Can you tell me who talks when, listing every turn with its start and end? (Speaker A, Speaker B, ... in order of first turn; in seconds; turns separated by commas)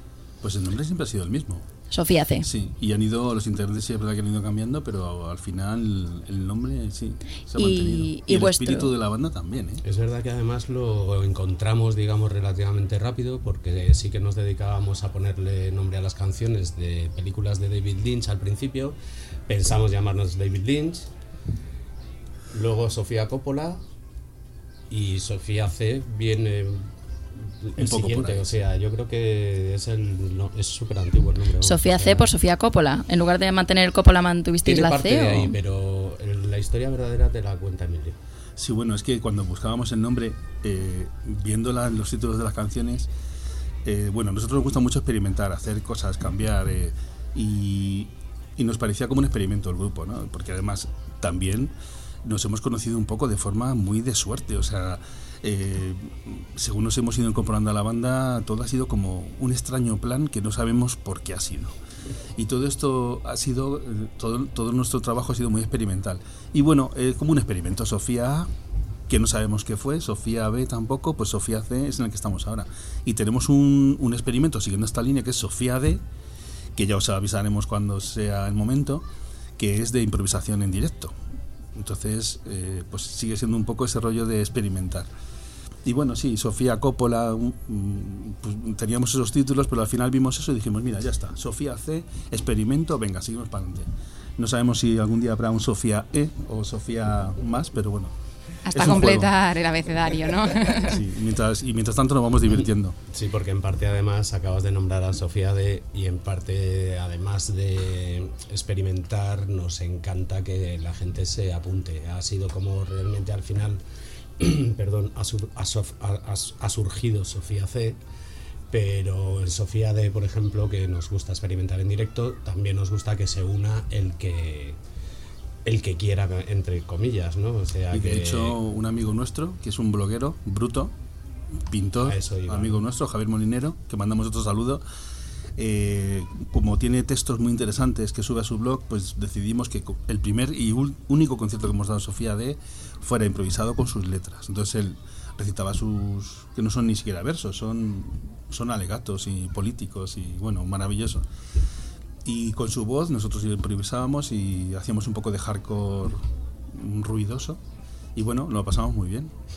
Speaker A: 0.4-1.7, Speaker B: 1.9-2.5, Speaker A: 2.4-9.8, Speaker B: 7.6-8.9, Speaker C: 9.8-21.1, Speaker C: 22.5-23.8, Speaker C: 24.9-32.3, Speaker A: 27.8-28.5, Speaker B: 31.6-35.5, Speaker C: 34.6-38.2, Speaker A: 38.6-43.1, Speaker A: 43.9-51.7, Speaker A: 52.2-61.8, Speaker A: 62.4-68.5, Speaker A: 69.1-76.0, Speaker A: 76.8-79.0, Speaker A: 79.6-81.1, Speaker A: 81.8-85.1, Speaker A: 85.8-98.1, Speaker D: 98.7-101.0, Speaker A: 98.7-99.3, Speaker A: 100.6-103.0, Speaker C: 103.1-113.8, Speaker C: 114.4-118.0, Speaker C: 118.7-124.8, Speaker C: 125.6-128.6, Speaker A: 127.9-130.9, Speaker A: 131.7-134.8, Speaker C: 132.0-132.8, Speaker A: 135.6-151.2, Speaker A: 152.2-157.6, Speaker A: 158.2-159.3